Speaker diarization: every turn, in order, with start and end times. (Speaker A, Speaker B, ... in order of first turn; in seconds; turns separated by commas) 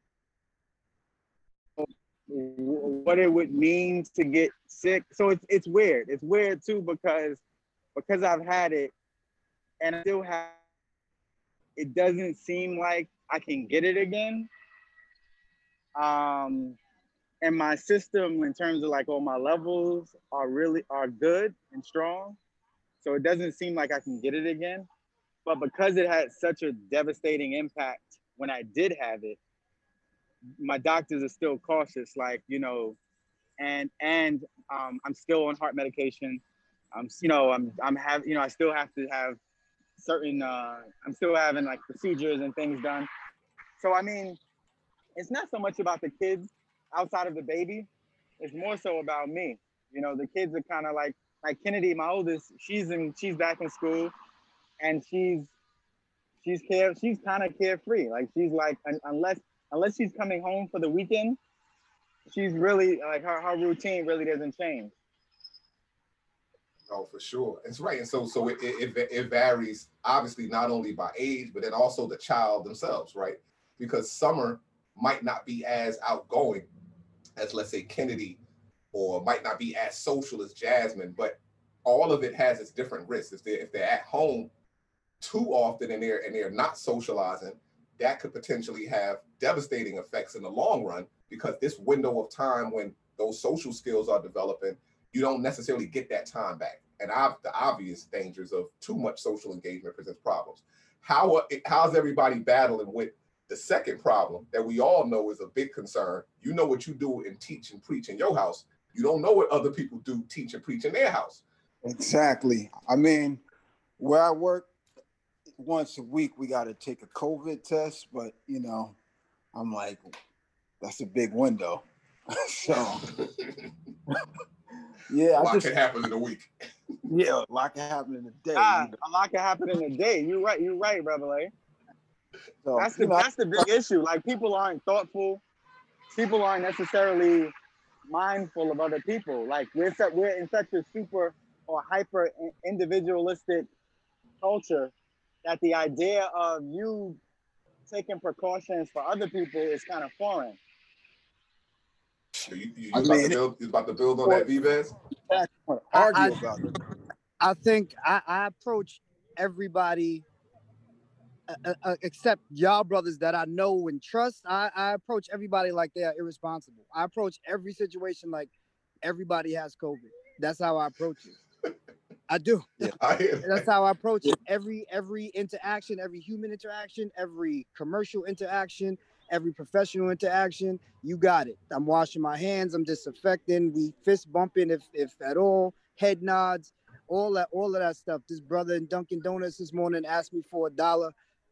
Speaker A: 1.8-7.4, Speaker A: 8.0-8.9, Speaker A: 9.8-10.6, Speaker A: 11.8-14.5, Speaker A: 15.9-16.8, Speaker A: 17.4-22.4, Speaker A: 23.0-24.9, Speaker A: 25.4-29.4, Speaker A: 30.6-33.0, Speaker A: 33.6-36.4, Speaker A: 36.9-39.4, Speaker A: 40.0-43.1, Speaker A: 43.8-44.4, Speaker A: 45.2-47.9, Speaker A: 48.4-54.1, Speaker A: 54.8-55.5, Speaker A: 56.4-61.4, Speaker A: 62.3-64.9, Speaker B: 66.9-76.7, Speaker B: 77.4-78.4, Speaker B: 78.9-84.5, Speaker B: 85.2-111.4, Speaker C: 111.8-113.4, Speaker C: 114.0-114.7, Speaker C: 115.6-119.0, Speaker C: 119.5-120.1, Speaker C: 120.8-123.1, Speaker C: 125.1-125.7, Speaker B: 125.3-126.5, Speaker C: 127.1-128.9, Speaker A: 128.6-131.5, Speaker C: 132.6-133.7, Speaker A: 132.8-135.4, Speaker A: 136.1-137.6, Speaker A: 138.1-143.7, Speaker A: 144.4-144.9, Speaker A: 145.4-147.2, Speaker A: 147.9-150.6, Speaker B: 152.4-154.9, Speaker C: 152.9-153.4, Speaker C: 155.3-156.8, Speaker D: 155.9-156.4, Speaker D: 157.4-160.2, Speaker D: 161.5-168.5, Speaker D: 169.0-171.4, Speaker D: 172.3-191.1, Speaker B: 173.0-173.7